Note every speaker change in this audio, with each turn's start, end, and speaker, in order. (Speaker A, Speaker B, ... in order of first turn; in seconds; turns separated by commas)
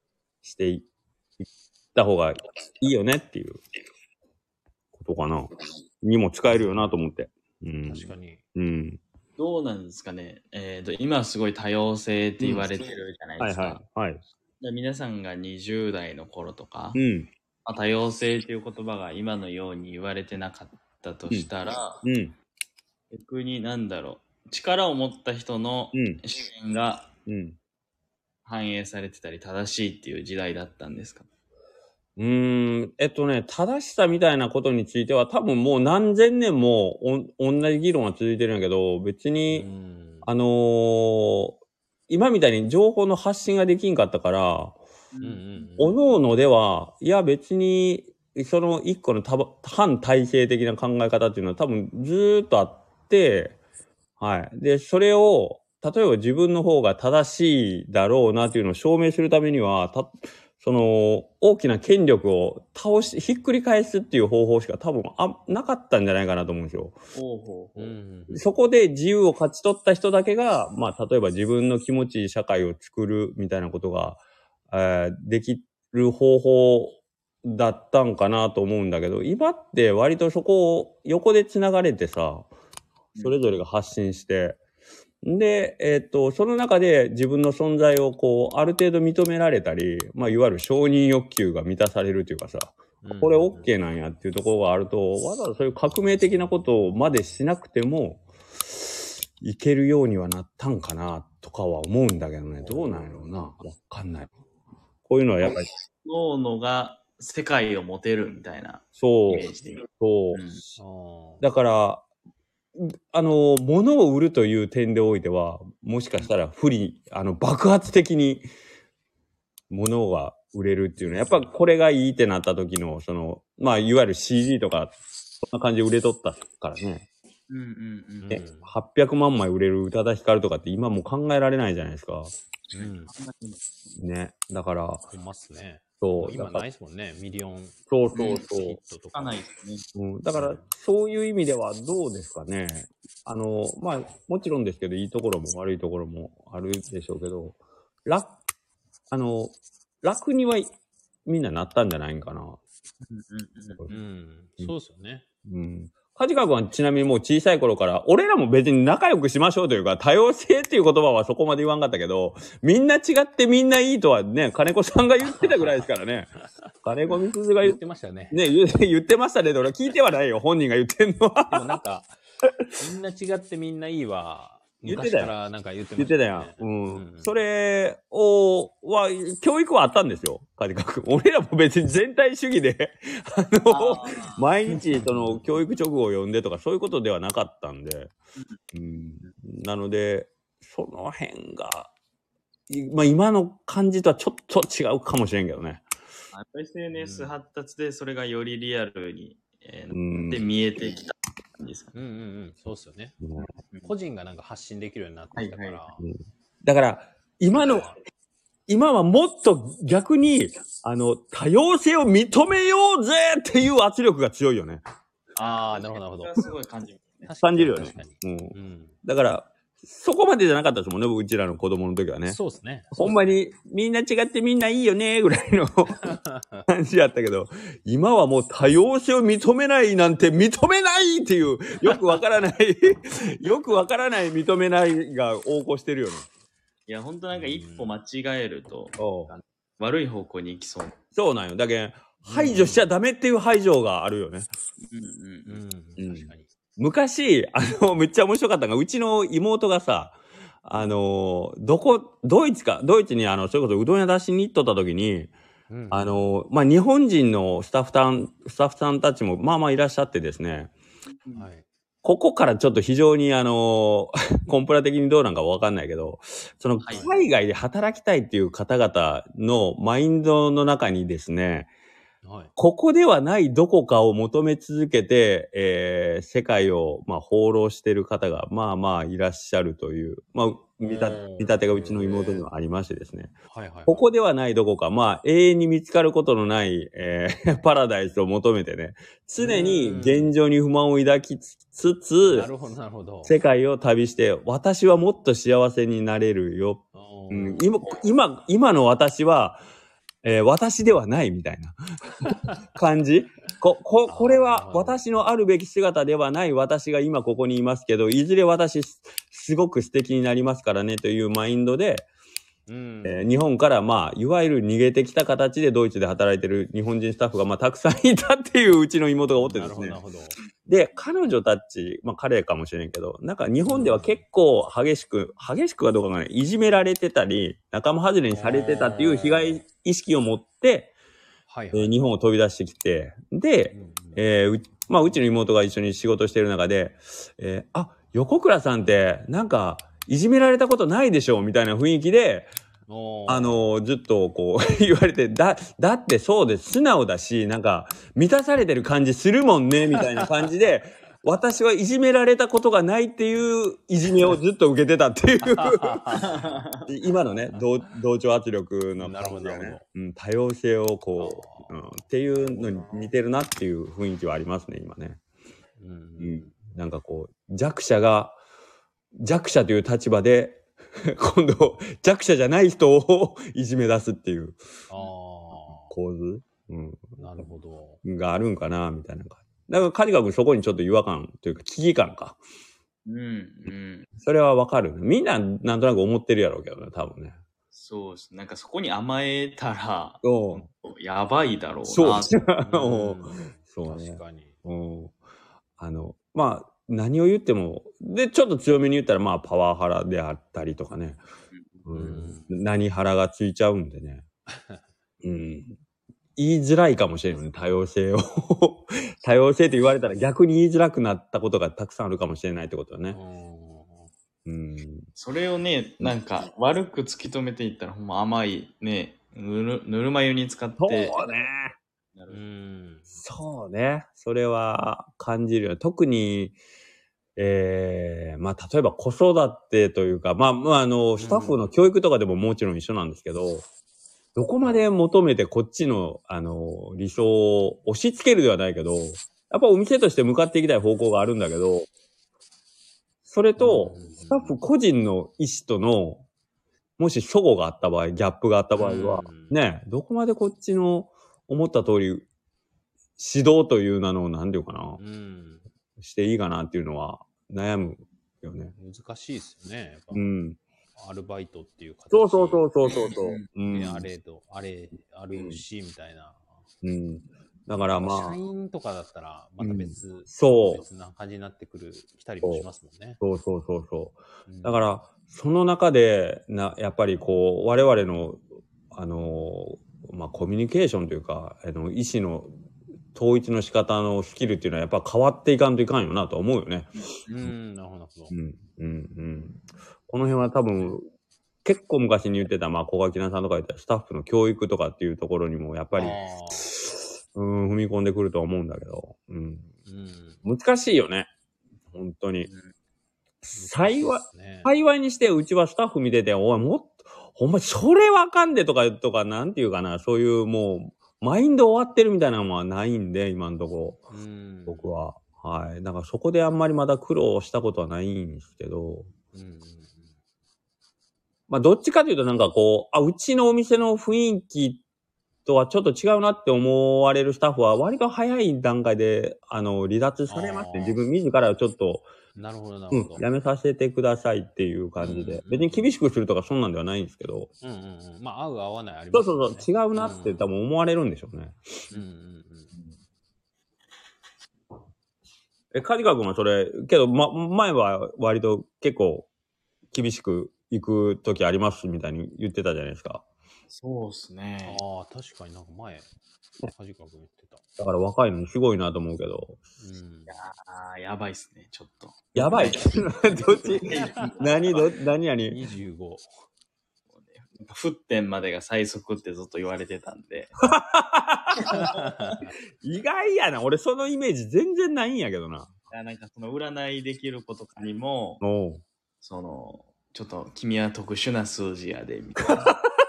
Speaker A: 0.4-0.9, Speaker A: 1.4-3.6, Speaker A: 4.9-9.0, Speaker B: 6.5-7.0, Speaker B: 7.8-8.4, Speaker C: 9.4-13.8, Speaker A: 12.4-12.7, Speaker A: 13.4-14.2, Speaker C: 14.6-17.0, Speaker A: 16.9-17.3, Speaker C: 17.6-22.0, Speaker A: 22.0-22.3, Speaker C: 23.1-27.1, Speaker A: 25.9-26.2, Speaker A: 27.2-27.6, Speaker C: 28.4-31.2, Speaker A: 32.2-39.7, Speaker B: 39.5-40.3, Speaker A: 40.2-44.8, Speaker C: 45.1-45.7, Speaker B: 45.2-46.0, Speaker A: 45.8-53.6, Speaker A: 54.2-67.0, Speaker C: 67.1-68.0, Speaker B: 67.8-68.5, Speaker A: 68.3-82.5, Speaker A: 83.2-84.6, Speaker A: 85.2-104.3, Speaker B: 93.0-93.7, Speaker B: 102.6-103.6, Speaker A: 105.0-105.7, Speaker C: 105.9-110.6, Speaker A: 109.0-110.8, Speaker B: 110.8-111.4, Speaker A: 111.4-112.0, Speaker A: 112.8-118.5, Speaker A: 119.7-127.0, Speaker B: 121.0-121.5, Speaker C: 127.5-128.4, Speaker B: 128.2-128.7, Speaker A: 128.3-132.3, Speaker C: 132.7-133.6, Speaker B: 132.7-133.1, Speaker A: 133.9-135.0, Speaker B: 135.1-137.8, Speaker A: 136.0-136.7, Speaker A: 137.9-138.8, Speaker C: 138.1-138.4, Speaker B: 138.4-139.4, Speaker C: 139.1-139.8, Speaker A: 139.9-148.4, Speaker B: 140.3-140.7, Speaker A: 149.1-150.7, Speaker A: 151.2-152.6, Speaker C: 153.0-153.8, Speaker B: 153.9-155.2, Speaker A: 155.4-166.3, Speaker B: 165.2-168.4, Speaker A: 166.8-167.8, Speaker A: 168.3-171.8, Speaker B: 171.5-172.1, Speaker B: 172.8-177.3, Speaker A: 174.8-175.3, Speaker A: 176.0-188.1, Speaker C: 183.7-184.8, Speaker B: 185.0-185.5, Speaker A: 188.7-191.9, Speaker A: 192.7-195.8, Speaker C: 196.3-201.9, Speaker B: 196.9-197.3, Speaker A: 199.9-200.4, Speaker B: 201.9-203.1, Speaker A: 203.2-203.5, Speaker B: 203.8-206.0, Speaker C: 205.3-205.8, Speaker A: 206.0-207.9, Speaker B: 207.6-207.9, Speaker A: 208.7-214.8, Speaker C: 215.3-217.3, Speaker B: 215.4-216.4, Speaker B: 217.2-218.9, Speaker A: 217.4-222.4, Speaker B: 222.3-223.3, Speaker A: 222.9-236.3, Speaker B: 226.0-226.7, Speaker C: 236.9-240.9, Speaker B: 237.3-237.9, Speaker A: 239.0-239.3, Speaker A: 241.1-244.5, Speaker B: 242.2-242.8, Speaker C: 244.8-245.6, Speaker B: 245.5-246.5, Speaker A: 246.0-255.3, Speaker B: 255.7-256.2, Speaker A: 255.9-260.7, Speaker C: 261.1-261.5, Speaker B: 261.3-261.6, Speaker A: 262.0-271.7, Speaker C: 266.8-267.1, Speaker B: 272.2-272.5, Speaker A: 272.6-283.3, Speaker B: 280.8-282.4, Speaker B: 283.5-284.0, Speaker A: 283.9-292.5, Speaker B: 289.4-290.3, Speaker B: 292.2-293.4, Speaker A: 293.2-299.6, Speaker B: 296.9-297.7, Speaker A: 300.2-312.1, Speaker B: 302.3-302.6, Speaker B: 304.1-305.0, Speaker B: 312.7-313.3, Speaker A: 313.0-320.0, Speaker B: 319.3-320.4, Speaker A: 320.6-330.9, Speaker B: 323.6-324.2, Speaker B: 328.3-329.6, Speaker B: 331.5-332.0, Speaker A: 331.7-342.5, Speaker B: 333.7-334.2, Speaker B: 342.9-343.6, Speaker A: 343.3-356.2, Speaker B: 350.0-350.5, Speaker B: 355.5-356.3, Speaker C: 356.1-356.9, Speaker A: 356.8-365.2, Speaker B: 358.9-359.8, Speaker B: 361.2-361.8, Speaker B: 362.5-362.9, Speaker B: 365.8-366.6, Speaker A: 366.2-368.4, Speaker A: 369.1-374.6, Speaker B: 374.9-375.9, Speaker A: 375.6-377.5, Speaker B: 377.2-378.0, Speaker A: 378.0-382.4, Speaker C: 383.1-384.1, Speaker A: 384.2-387.4, Speaker C: 387.7-392.5, Speaker A: 390.2-390.7, Speaker A: 391.9-395.1, Speaker B: 392.6-394.5, Speaker A: 395.8-401.2, Speaker A: 401.8-404.2, Speaker B: 401.9-402.6, Speaker B: 404.5-404.8, Speaker A: 405.2-405.8, Speaker A: 406.4-413.2, Speaker B: 413.1-414.1, Speaker A: 414.4-415.1, Speaker C: 415.1-421.2, Speaker A: 420.8-421.7, Speaker C: 422.1-422.4, Speaker B: 422.3-423.1, Speaker A: 423.2-426.5, Speaker A: 427.4-433.6, Speaker B: 431.2-431.6, Speaker A: 434.4-441.9, Speaker A: 443.2-446.2, Speaker B: 443.6-444.5, Speaker A: 447.0-452.3, Speaker B: 448.7-449.6, Speaker A: 453.2-455.0, Speaker B: 455.0-455.6, Speaker A: 456.0-458.7, Speaker B: 458.8-460.3, Speaker A: 460.1-460.6, Speaker B: 461.0-462.7, Speaker A: 462.1-464.1, Speaker C: 462.9-463.5, Speaker B: 463.7-466.4, Speaker A: 465.3-465.6, Speaker A: 466.8-468.4, Speaker B: 467.9-473.2, Speaker A: 469.6-470.8, Speaker A: 473.2-482.5, Speaker B: 474.5-474.8, Speaker A: 483.1-487.5, Speaker B: 487.3-488.3, Speaker A: 488.3-491.1, Speaker A: 491.6-499.7, Speaker B: 495.9-496.7, Speaker B: 499.9-500.4, Speaker A: 500.4-501.3, Speaker A: 501.9-502.5, Speaker A: 503.4-514.0, Speaker B: 503.5-504.7, Speaker B: 514.1-515.0, Speaker A: 514.7-519.1, Speaker B: 519.3-520.1, Speaker A: 521.5-524.8, Speaker A: 525.5-532.1, Speaker B: 530.3-531.0, Speaker B: 532.3-533.2, Speaker A: 532.9-537.5, Speaker B: 535.0-535.9, Speaker B: 537.6-540.4, Speaker A: 539.1-541.9, Speaker B: 541.9-542.7, Speaker A: 545.7-549.3, Speaker A: 549.9-553.2, Speaker C: 553.7-554.8, Speaker B: 554.6-556.1, Speaker B: 556.7-557.6, Speaker A: 557.8-559.6, Speaker B: 559.8-560.4, Speaker C: 560.3-564.8, Speaker A: 562.3-565.6, Speaker B: 562.4-562.8, Speaker B: 563.9-564.4, Speaker B: 565.5-566.3, Speaker C: 567.1-570.5, Speaker A: 570.6-571.9, Speaker C: 571.5-572.4, Speaker B: 571.7-572.5, Speaker A: 572.8-575.7, Speaker C: 575.9-578.4, Speaker A: 578.4-578.8, Speaker C: 579.2-582.7, Speaker A: 582.5-582.8